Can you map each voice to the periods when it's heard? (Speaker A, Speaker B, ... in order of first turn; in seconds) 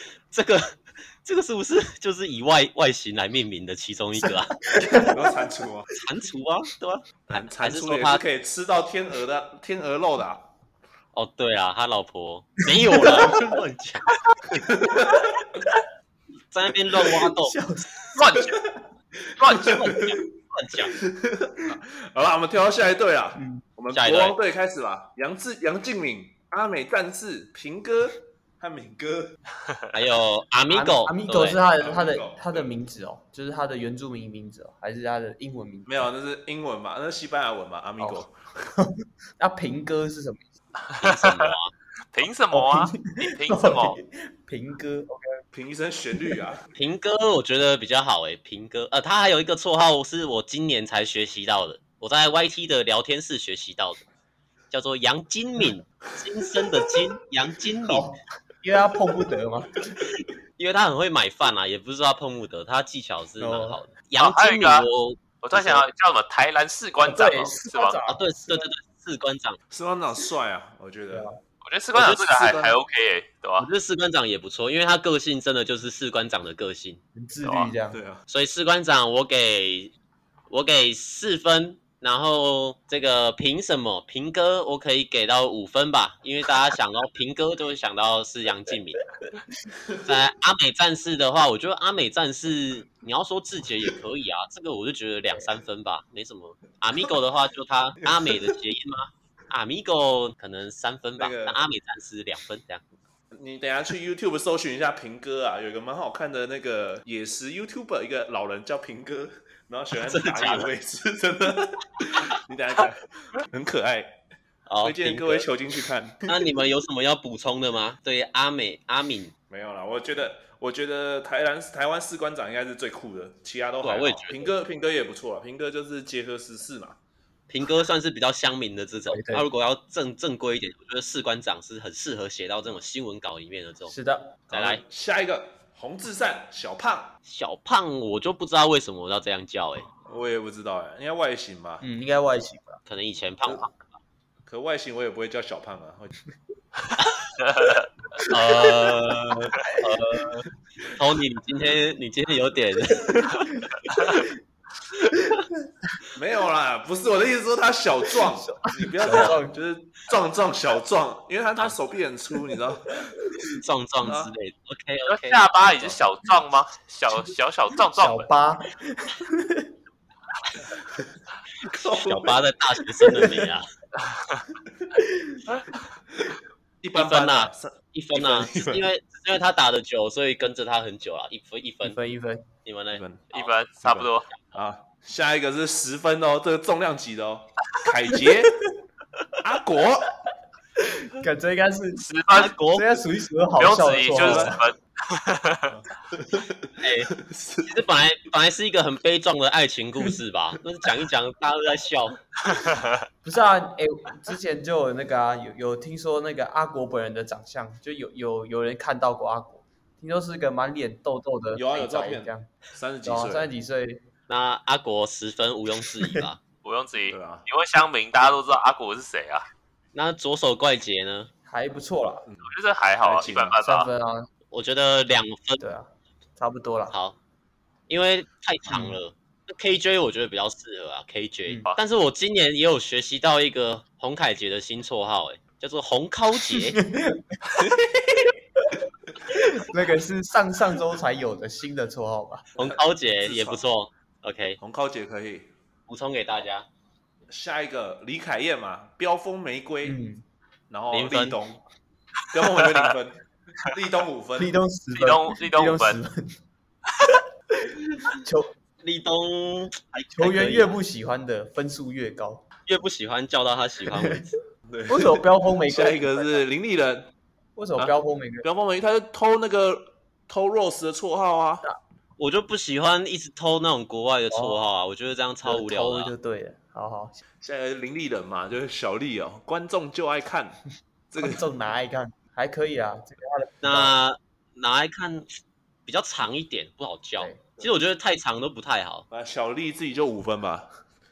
Speaker A: 0.3-4.6, 5.9-8.2, 11.1-14.1, 16.5-17.6, 19.4-21.0, 23.9-24.3, 29.9-31.6, 41.0-41.7, 46.8-54.0, 54.7-58.0, 60.0-65.8, 68.1-69.6, 73.6-77.0, 78.3-79.9, 80.5-89.0, 90.0-102.8, 110.0-110.7, 114.7-119.3, 123.8-124.5, 127.5-133.9, 134.5-134.8, 137.2-139.9, 142.9-143.9, 148.2-154.2, 159.1-159.4, 163.5-165.4, 171.6-173.6, 176.9-182.0, 182.6-183.6, 192.3-193.0, 196.8-202.2, 214.3-216.4, 219.9-221.3, 224.5-225.6, 226.9-227.2, 227.9-236.8, 242.6-244.6, 245.9-246.7, 250.9-251.4, 258.8-260.7, 262.7-264.3, 272.2-276.1, 283.6-285.3, 285.9-289.0
Speaker B: 4.2-5.2, 12.9-13.5, 17.0-18.5, 23.4-23.6, 30.7-36.1, 38.8-40.4, 42.5-45.4, 57.9-59.9, 63.4-63.8, 67.0-68.7, 71.1-71.4, 77.1-78.0, 129.1-129.5, 133.9-134.4, 141.8-142.8, 149.5-150.3, 155.3-155.7, 158.5-159.6, 167.9-169.7, 173.0-173.5, 175.0-175.4, 181.8-182.5, 191.0-192.1, 192.6-194.6, 203.2-212.5, 213.0-214.0, 216.0-216.3, 221.4-222.2, 223.6-224.3, 225.6-226.9, 228.7-229.0, 236.5-237.4, 239.3-242.5, 249.8-250.2, 254.4-256.4, 257.6-258.5, 260.1-262.4, 263.9-264.2, 264.9-266.4, 267.6-268.4, 274.3-274.6, 275.4-277.2, 281.2-283.9, 287.2-287.4
Speaker C: 4.9-5.9, 7.3-10.5, 14.6-15.3, 19.4-20.1, 21.0-29.4, 31.8-32.7, 35.9-38.7, 45.5-46.6, 69.7-71.3, 71.9-72.8, 77.9-78.2, 98.0-98.5, 101.2-101.6, 103.3-114.2, 114.8-116.3, 119.5-127.0, 134.5-137.1, 140.0-141.8, 144.5-146.2, 156.1-163.2, 164.0-164.3, 171.7-172.4, 176.1-178.8, 182.9-183.2, 183.8-188.5, 189.4-190.1, 194.1-194.6, 195.7-197.7, 211.5-213.5, 217.1-217.4, 222.3-223.6, 237.5-238.3, 242.6-243.6, 244.6-245.5, 247.3-250.0, 250.7-251.6, 252.3-254.5, 264.7-267.1, 268.4-271.7, 277.4-280.6, 281.1-281.4, 289.1-290.7
Speaker D: 18.1-18.6, 19.4-19.7, 40.9-41.5, 42.1-44.0, 64.2-64.9, 65.4-68.0, 71.6-73.7, 77.4-77.7, 147.4-147.9, 165.1-168.3, 183.3-184.3, 192.0-192.5, 193.6-195.7, 202.5-203.0, 216.6-219.5, 222.4-223.9, 254.9-256.0